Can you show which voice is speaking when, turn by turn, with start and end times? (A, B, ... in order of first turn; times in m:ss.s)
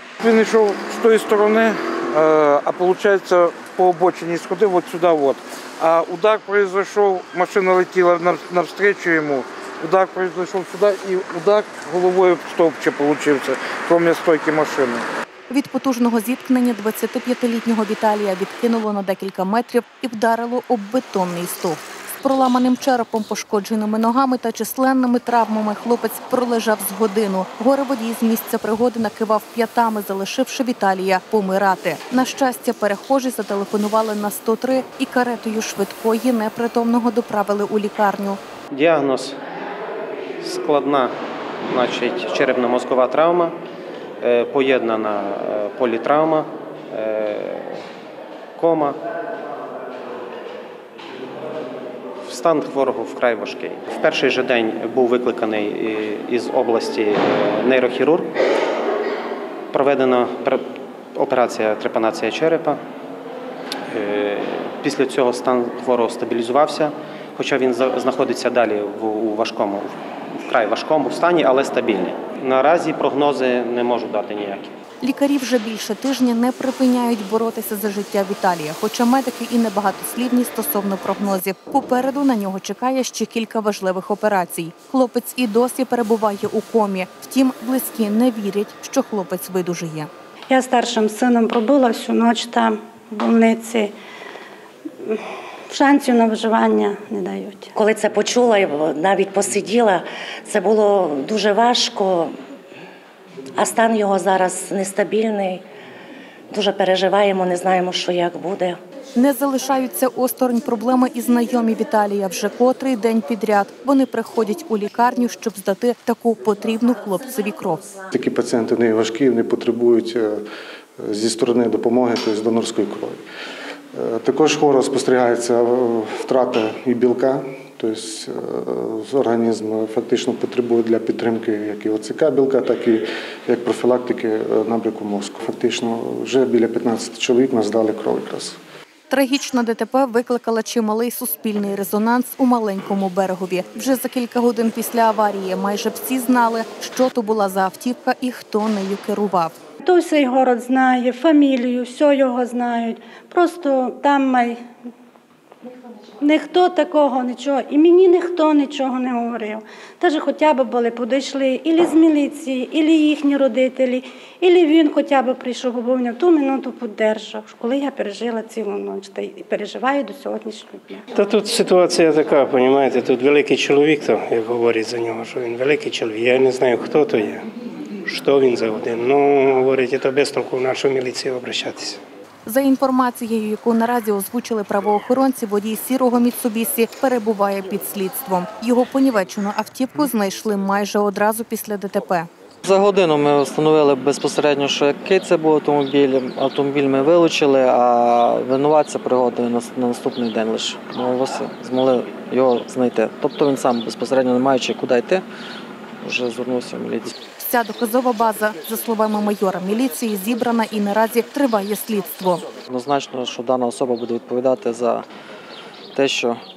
0:00.2-0:15.1 A
0:15.5-0:38.4 B
0:38.7-0:39.4 C
0:40.4-0:41.1 C
0:41.7-0:43.6 C
0:44.2-0:47.8 C
0:48.6-0:49.0 C
0:52.2-0:58.3 C
0:59.7-1:00.6 C
1:01.2-1:02.8 C
1:03.9-1:14.7 C
1:15.0-1:30.1 B
1:30.5-1:33.9 D
1:35.0-1:37.7 D
1:37.8-1:42.4 E
1:43.6-1:45.6 E
1:46.5-1:48.8 E
1:49.2-1:57.8 B
1:58.1-2:00.4 F
2:01.0-2:03.2 F
2:03.9-2:18.6 F
2:19.1-2:29.6 B
2:29.8-2:34.6 D
2:36.2-2:51.0 D
2:51.2-2:57.5 G
2:58.1-3:02.0 G
3:02.5-3:12.3 B
3:12.6-3:25.2 H
3:26.0-3:27.2 H
3:27.4-3:32.4 B
3:32.7-3:35.0 H
3:35.9-3:36.4 H